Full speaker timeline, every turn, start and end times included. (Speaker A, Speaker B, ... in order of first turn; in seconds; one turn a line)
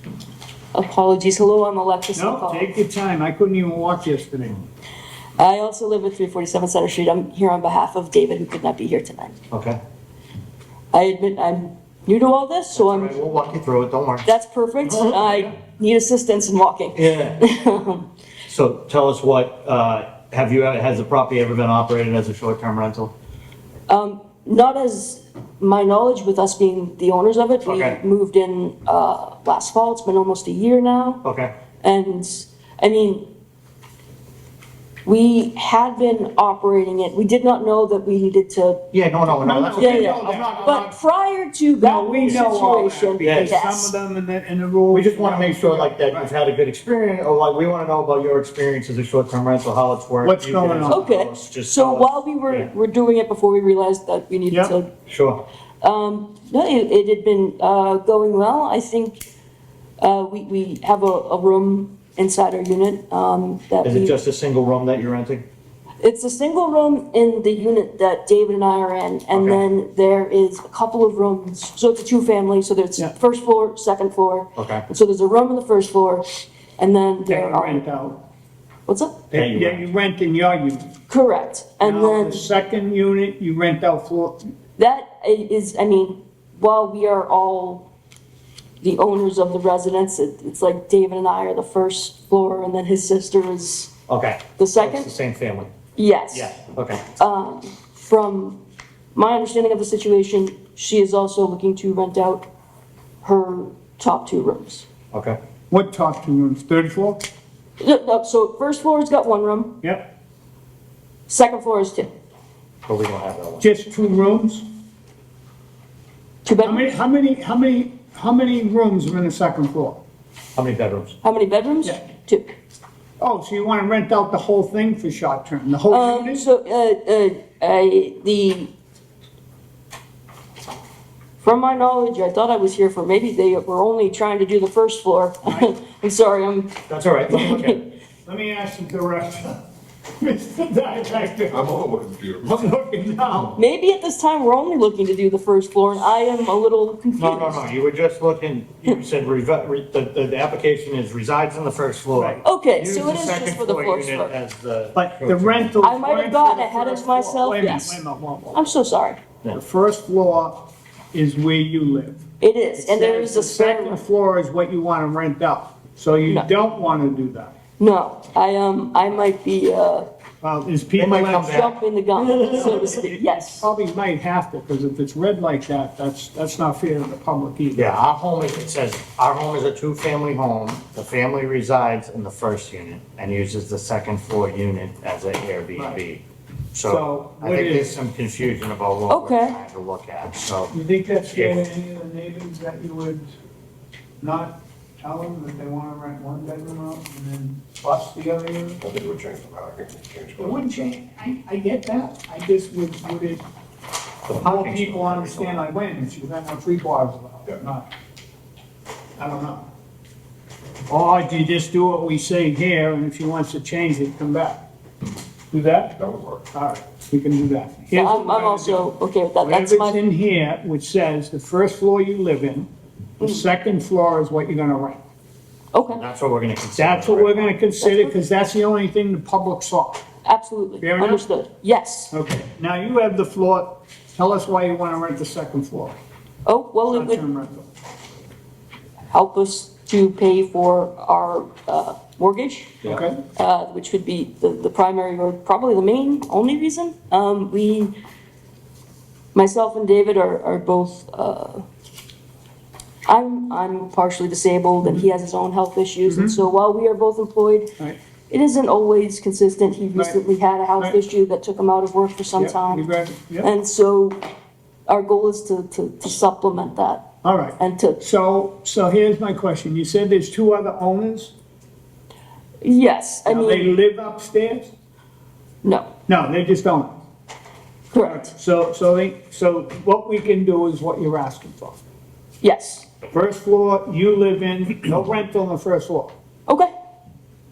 Speaker A: 0.7-2.7
Speaker B: 2.1-4.6
Speaker A: 5.4-9.3
Speaker C: 9.5-9.8
Speaker A: 10.9-13.2
Speaker C: 12.7-14.3
Speaker A: 14.2-18.1
Speaker C: 14.8-15.5
Speaker C: 16.9-17.4
Speaker C: 18.5-23.1
Speaker A: 23.9-31.2
Speaker C: 27.6-28.0
Speaker C: 31.2-31.5
Speaker A: 31.8-33.3
Speaker A: 35.0-38.8
Speaker C: 38.9-40.9
Speaker B: 39.3-40.9
Speaker A: 39.7-43.9
Speaker B: 41.8-46.3
Speaker C: 43.2-43.6
Speaker C: 44.9-52.7
Speaker B: 50.2-51.0
Speaker A: 50.9-54.9
Speaker C: 55.1-55.4
Speaker A: 55.8-59.2
Speaker A: 60.0-64.2
Speaker C: 63.8-65.4
Speaker A: 66.0-76.3
Speaker C: 69.3-69.6
Speaker C: 74.5-74.8
Speaker A: 76.8-77.8
Speaker B: 77.3-78.2
Speaker A: 78.9-79.2
Speaker B: 79.3-80.9
Speaker C: 79.3-79.8
Speaker A: 81.1-82.5
Speaker B: 81.8-84.5
Speaker A: 84.8-87.9
Speaker A: 88.8-93.9
Speaker C: 94.1-95.7
Speaker A: 94.6-95.1
Speaker A: 96.0-96.5
Speaker C: 96.3-97.0
Speaker A: 97.2-98.6
Speaker A: 99.1-102.5
Speaker A: 103.2-104.8
Speaker C: 105.1-105.4
Speaker B: 105.7-107.2
Speaker A: 107.8-109.8
Speaker B: 109.8-110.1
Speaker A: 111.3-112.1
Speaker C: 112.8-113.6
Speaker B: 113.6-114.7
Speaker A: 116.4-116.9
Speaker B: 116.6-120.0
Speaker C: 120.5-121.1
Speaker A: 121.2-122.5
Speaker B: 123.2-126.4
Speaker A: 125.9-128.7
Speaker A: 131.4-137.8
Speaker C: 136.9-137.8
Speaker B: 138.2-139.6
Speaker B: 140.2-141.8
Speaker D: 141.5-142.6
Speaker B: 142.4-143.6
Speaker A: 143.5-147.7
Speaker C: 147.2-155.7
Speaker B: 152.1-152.4
Speaker A: 152.4-154.3
Speaker B: 154.9-158.6
Speaker A: 155.8-158.0
Speaker A: 158.5-159.2
Speaker B: 159.5-162.2
Speaker A: 162.4-164.0
Speaker B: 162.8-167.5
Speaker A: 167.8-170.1
Speaker B: 170.4-171.6
Speaker C: 170.9-173.0
Speaker A: 171.4-173.7
Speaker B: 172.3-177.9
Speaker C: 177.7-186.2
Speaker C: 186.7-190.7
Speaker B: 186.8-187.9
Speaker A: 189.1-189.6
Speaker B: 190.7-193.3
Speaker C: 191.3-191.6
Speaker B: 194.2-198.8
Speaker D: 198.8-200.8
Speaker B: 200.4-203.4
Speaker C: 204.3-205.6
Speaker B: 204.3-207.9
Speaker B: 209.2-209.7
Speaker B: 210.9-214.6
Speaker B: 215.5-216.0
Speaker D: 216.0-216.4
Speaker B: 216.5-218.9
Speaker A: 217.9-220.0
Speaker B: 219.4-222.7
Speaker B: 223.2-225.0
Speaker A: 225.7-226.0
Speaker C: 225.9-227.5
Speaker B: 226.8-230.0
Speaker A: 227.8-228.1
Speaker A: 230.2-232.1
Speaker B: 230.8-231.2
Speaker B: 232.1-235.9
Speaker A: 236.4-237.2
Speaker B: 236.9-237.7
Speaker A: 239.1-242.8
Speaker B: 242.8-243.2
Speaker A: 243.3-247.9
Speaker A: 249.3-251.6
Speaker A: 253.1-257.7
Speaker B: 256.1-256.4
Speaker A: 258.3-262.9
Speaker B: 262.4-263.5
Speaker A: 263.4-264.2
Speaker A: 264.9-268.0
Speaker B: 267.2-271.3
Speaker A: 272.6-273.8
Speaker B: 273.2-274.7
Speaker A: 275.6-275.9
Speaker B: 276.1-276.9
Speaker A: 277.9-278.3
Speaker B: 278.0-281.8
Speaker A: 282.4-282.9
Speaker B: 283.1-286.1